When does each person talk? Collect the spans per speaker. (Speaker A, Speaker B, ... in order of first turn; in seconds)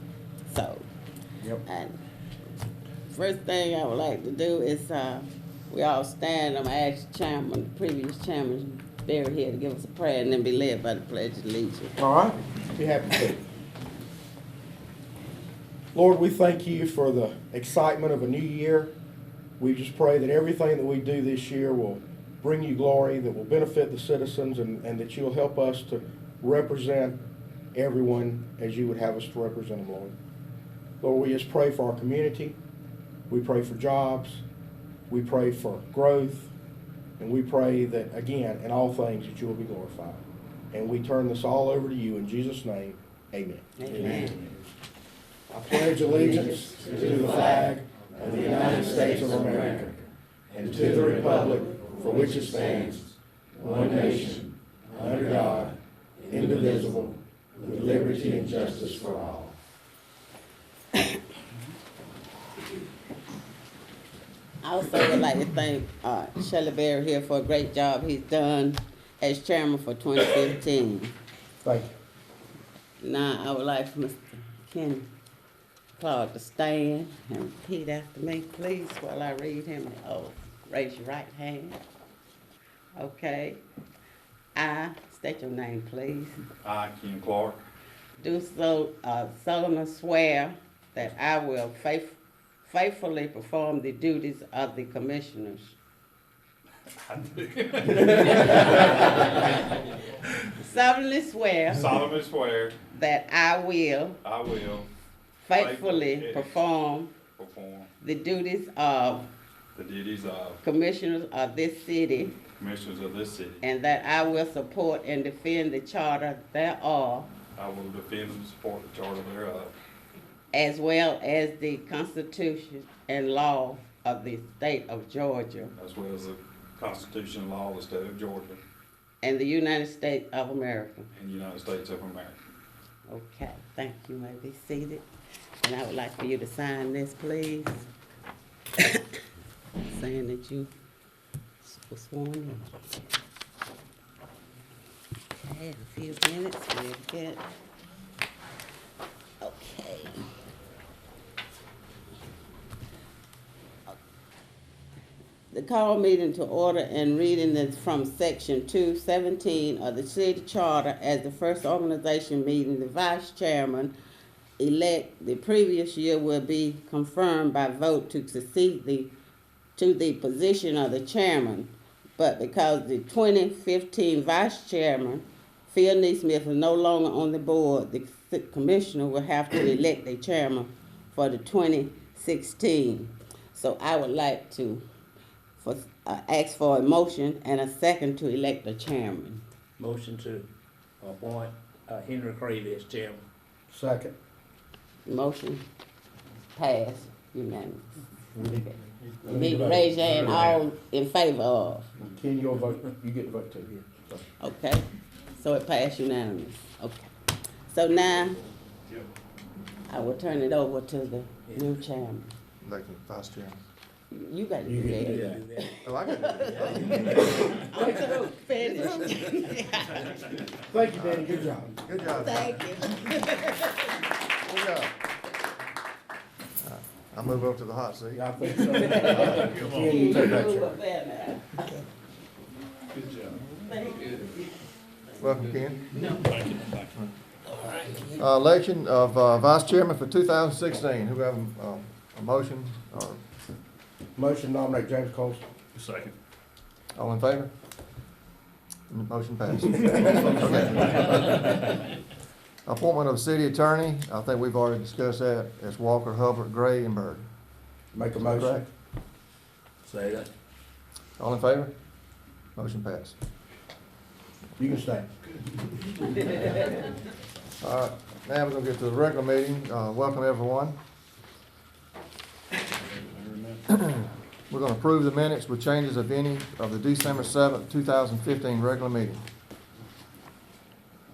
Speaker A: 0.5-0.8, 1.6-2.0, 3.1-12.0, 43.8-44.4, 46.6-47.7, 48.5-49.3, 64.6-71.2, 73.0-75.1, 76.0-81.8, 83.0-83.6, 84.5-86.4, 88.2-95.8, 98.0-99.6, 100.5-102.0, 102.9-104.2, 105.4-107.1, 108.0-109.3, 110.6-112.4, 113.6-117.3, 120.5-125.7, 129.2-131.1, 133.1-135.1, 135.6-137.9, 138.8-139.1, 139.9-140.7, 141.6-142.9, 145.3-147.4, 149.4-150.2, 155.5-163.9, 164.6-169.1, 169.8-184.8, 185.6-189.4, 195.1-195.6, 196.6-197.9, 198.4-198.7, 199.2-201.9, 204.4-207.1, 207.7-208.4, 209.9-212.3, 214.1-220.4, 222.1-224.1, 228.7-231.8, 233.7-234.4, 235.9-236.6, 237.5-238.2
Speaker B: 12.0-13.4, 15.9-18.9, 19.6-27.2, 27.8-30.2, 31.0-32.6, 33.3-34.4, 35.1-36.5, 37.2-44.5, 45.5-59.5, 71.6-71.9, 193.7-194.2, 198.3-198.6, 199.2-200.6, 202.0-204.2, 214.7-215.2, 220.6-221.8, 228.1-230.7, 244.2-245.4, 249.8-251.0, 257.9-258.7, 264.6-265.1
Speaker C: 86.6-87.6, 97.1-99.3, 101.7-102.8, 104.2-104.9, 105.5-106.6, 107.4-107.9, 109.8-110.6, 112.6-113.6, 117.6-119.7, 125.8-128.6, 131.1-132.4
Speaker D: 189.8-190.5, 191.0-193.2, 214.8-215.8, 216.4-217.8, 259.9-260.3
Speaker E: 212.6-213.6, 215.8-217.1, 221.0-221.3, 221.8-222.7, 224.5-224.9, 226.6-228.3, 235.2-235.8, 238.2-243.2, 246.9-247.5, 248.9-251.7, 252.7-257.3, 258.2-258.6, 261.2-261.7, 262.6-263.1, 267.6-270.8, 273.7-279.2